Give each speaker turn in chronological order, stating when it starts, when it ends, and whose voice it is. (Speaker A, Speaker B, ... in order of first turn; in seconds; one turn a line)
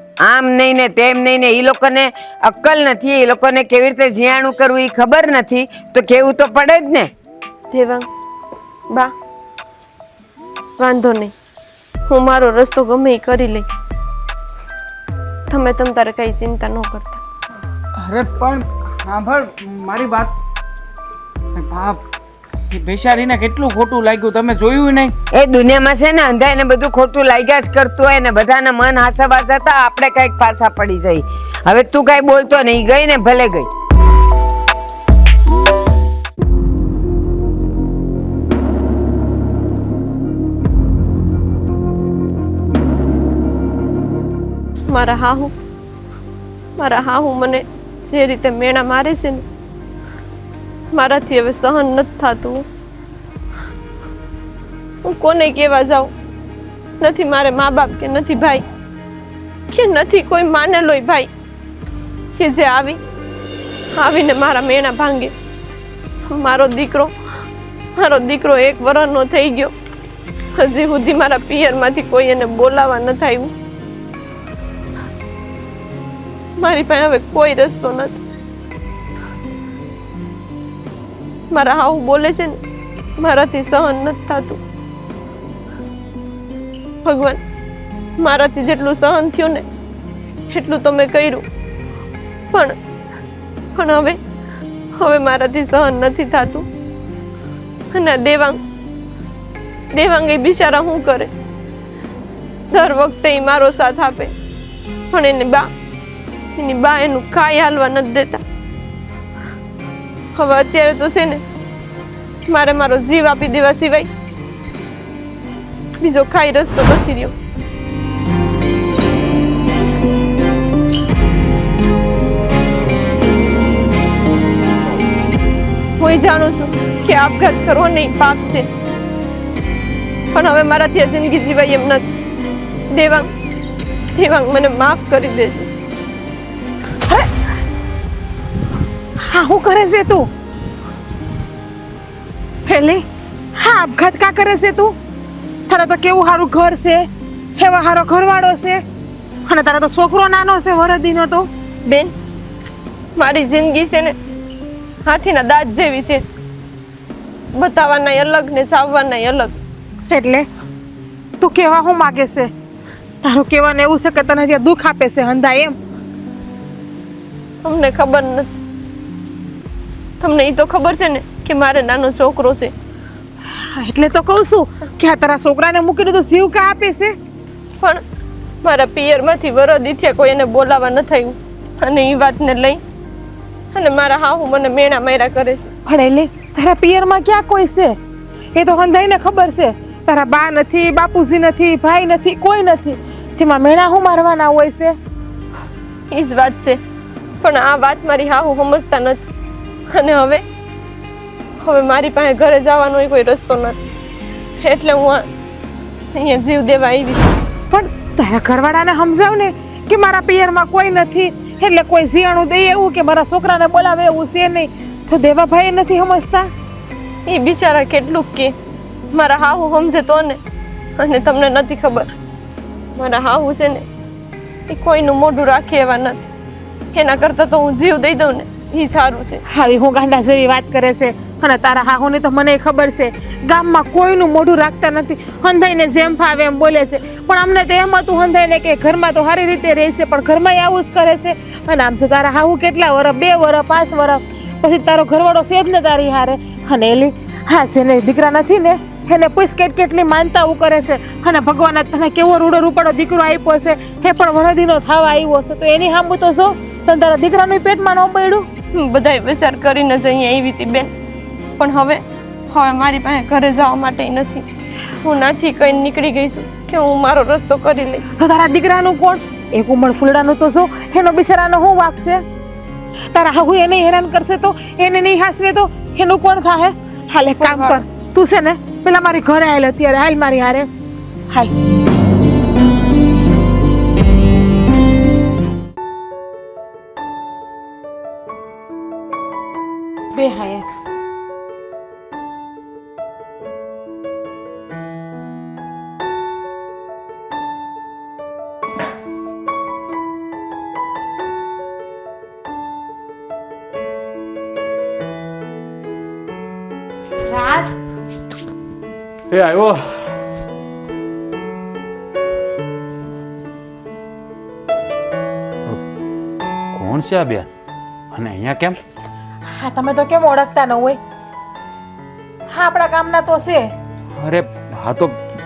Speaker A: 0.2-7.1
Speaker B: 7.7-8.1
Speaker B: 10.8-11.3
Speaker B: 12.1-13.7
Speaker B: 15.5-17.2
Speaker C: 18.0-20.4
Speaker C: 21.6-22.0
Speaker C: 22.7-25.1
Speaker A: 25.3-33.7
Speaker B: 44.9-45.5
Speaker B: 46.8-49.4
Speaker B: 50.9-52.6
Speaker B: 55.0-56.1
Speaker B: 57.0-58.6
Speaker B: 59.7-61.3
Speaker B: 62.3-63.0
Speaker B: 64.0-65.3
Speaker B: 66.3-67.1
Speaker B: 68.0-69.7
Speaker B: 70.5-73.5
Speaker B: 76.6-78.2
Speaker B: 81.5-82.6
Speaker B: 83.2-84.6
Speaker B: 87.0-87.4
Speaker B: 88.2-89.6
Speaker B: 90.5-91.4
Speaker B: 93.7-94.2
Speaker B: 95.0-96.7
Speaker B: 97.9-98.6
Speaker B: 99.9-101.3
Speaker B: 102.7-104.3
Speaker B: 105.1-105.7
Speaker B: 106.5-108.4
Speaker B: 110.3-111.4
Speaker B: 112.5-114.1
Speaker B: 116.0-117.3
Speaker B: 126.0-128.7
Speaker B: 130.3-132.0
Speaker B: 132.9-133.3
Speaker B: 134.1-135.7
Speaker D: 139.2-140.3
Speaker D: 142.7-143.0
Speaker D: 143.5-144.9
Speaker D: 145.7-148.8
Speaker D: 149.4-151.5
Speaker B: 151.8-152.1
Speaker B: 153.2-154.1
Speaker B: 155.0-156.2
Speaker B: 157.5-159.6
Speaker D: 160.1-160.5
Speaker D: 161.4-162.5
Speaker D: 163.2-165.8
Speaker B: 167.6-168.5
Speaker B: 170.2-172.7
Speaker D: 173.5-177.1
Speaker B: 178.6-182.8
Speaker B: 183.7-185.7
Speaker D: 185.8-188.0
Speaker D: 188.5-194.9
Speaker B: 196.1-196.8
Speaker B: 197.4-199.2
Speaker B: 199.9-200.4
Speaker B: 201.6-203.8
Speaker B: 204.6-205.3
Speaker B: 206.1-207.2
Speaker D: 207.7-216.5
Speaker B: 217.2-218.5
Speaker B: 219.1-220.4
Speaker B: 221.0-222.1
Speaker B: 222.9-223.8
Speaker B: 224.7-226.2
Speaker B: 226.9-229.4
Speaker D: 229.5-258.5
Speaker B: 258.7-260.9
Speaker B: 261.6-264.4
Speaker B: 265.0-268.0
Speaker D: 268.2-272.2
Speaker D: 273.1-280.7
Speaker B: 277.4-277.8
Speaker D: 290.1-290.6
Speaker D: 307.3-307.7
Speaker E: 309.3-309.8
Speaker E: 316.7-317.5
Speaker E: 318.1-318.7
Speaker D: 319.5-321.0
Speaker D: 322.5-323.7
Speaker E: 324.2-325.2